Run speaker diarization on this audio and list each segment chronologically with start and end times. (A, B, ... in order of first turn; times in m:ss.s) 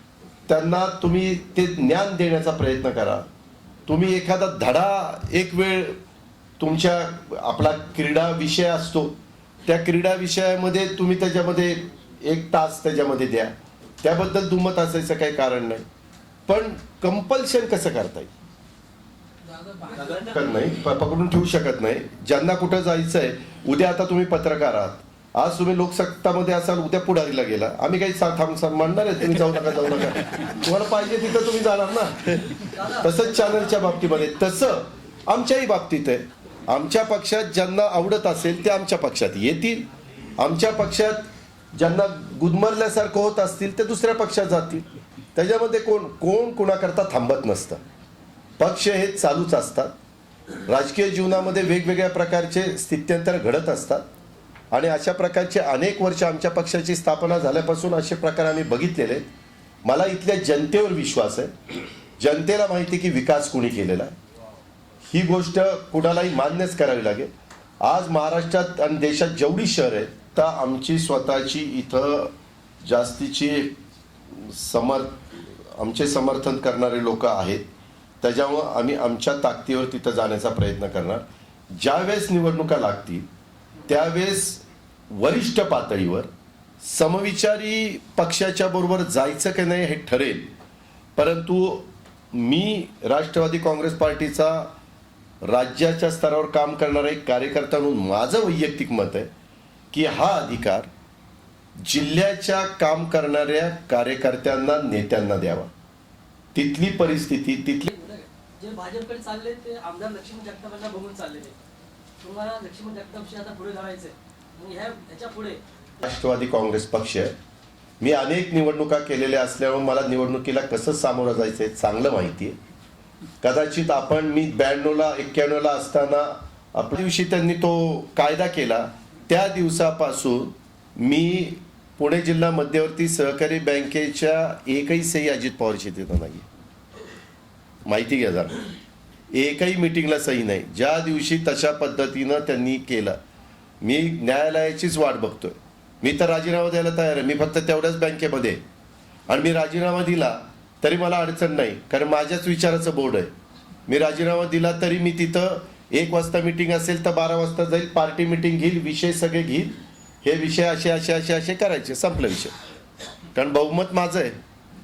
0:00.5-0:03.3 A
0:03.9-0:06.0 A
0:06.6-0:15.9 A
0:16.5-0:18.3 A
0:19.7-0:20.3 B
0:20.0-0:39.9 A
0:32.6-0:33.4 B
0:40.4-0:47.8 A
0:48.6-0:49.9 A
0:50.6-0:54.1 A
0:54.7-0:59.2 A
0:59.8-1:01.5 A
1:02.2-1:04.2 A
1:05.1-1:07.3 A
1:07.8-1:13.8 A
1:14.3-1:17.6 A
1:18.2-1:21.2 A
1:21.7-1:23.3 A
1:23.9-1:26.3 A
1:26.8-1:30.5 A
1:31.2-1:34.7 A
1:35.4-1:39.3 A
1:39.9-1:40.9 A
1:41.8-1:45.7 A
1:46.6-1:47.9 A
1:47.9-1:51.6 B
1:52.2-1:55.6 B
1:56.0-1:57.4 A
1:58.0-2:02.6 A
2:03.4-2:16.5 A
2:17.9-2:18.7 A
2:19.3-2:23.2 A
2:23.8-2:28.6 A
2:29.3-2:33.3 A
2:33.9-2:42.6 A
2:43.3-2:44.4 A